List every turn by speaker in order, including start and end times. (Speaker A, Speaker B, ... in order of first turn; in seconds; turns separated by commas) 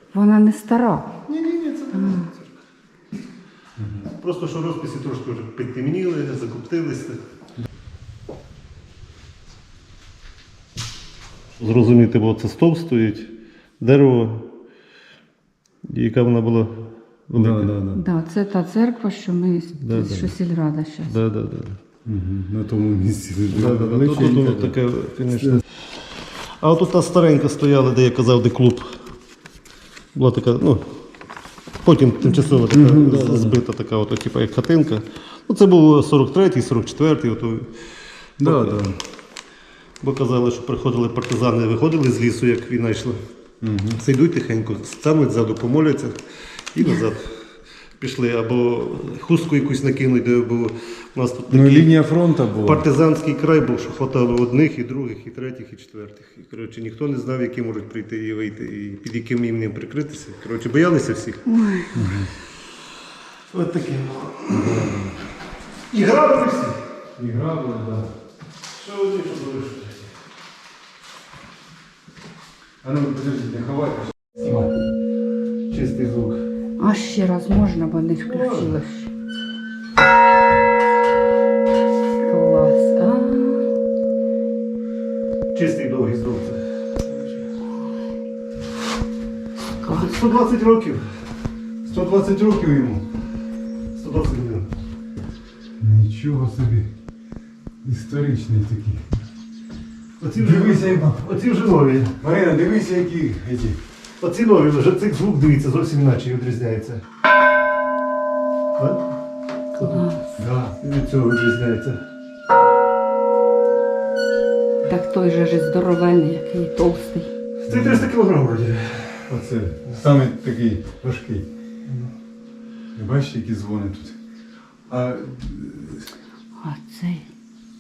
Speaker A: 0.1-1.1, Speaker B: 1.2-2.5, Speaker A: 1.9-2.3, Speaker C: 3.8-4.1, Speaker B: 4.2-7.2, Speaker B: 11.6-14.5, Speaker B: 15.9-17.7, Speaker C: 17.3-18.0, Speaker A: 17.9-21.1, Speaker B: 19.8-20.3, Speaker B: 21.0-21.8, Speaker C: 22.0-24.8, Speaker B: 23.5-25.6, Speaker B: 26.6-29.0, Speaker B: 30.1-30.8, Speaker B: 31.8-37.7, Speaker C: 32.7-33.6, Speaker C: 38.4-39.0, Speaker B: 38.4-38.8, Speaker B: 40.0-43.2, Speaker C: 43.6-44.0, Speaker B: 44.0-46.2, Speaker B: 46.7-47.4, Speaker B: 48.0-52.0, Speaker C: 51.5-52.8, Speaker B: 52.6-61.4, Speaker A: 61.5-61.9, Speaker C: 61.9-62.3, Speaker B: 63.5-64.9, Speaker C: 64.5-65.2, Speaker B: 65.9-66.8, Speaker C: 67.2-68.1, Speaker B: 68.7-70.1, Speaker C: 72.8-74.7, Speaker B: 75.7-76.4, Speaker A: 76.8-79.1, Speaker B: 78.2-78.7, Speaker A: 82.2-83.7, Speaker B: 85.5-86.6, Speaker A: 89.8-90.3, Speaker B: 89.9-91.1, Speaker C: 91.8-93.0, Speaker B: 93.9-94.7, Speaker C: 95.8-96.9, Speaker C: 97.8-99.0, Speaker B: 100.2-102.2, Speaker C: 100.4-101.2, Speaker C: 102.2-103.8, Speaker B: 104.2-107.0, Speaker B: 108.8-109.0, Speaker A: 109.8-110.4, Speaker C: 110.4-110.8, Speaker B: 110.8-112.0, Speaker A: 114.8-117.3, Speaker B: 117.6-119.3, Speaker C: 117.7-118.1, Speaker C: 119.3-121.5, Speaker C: 122.9-124.2, Speaker C: 124.9-126.1, Speaker A: 126.6-127.3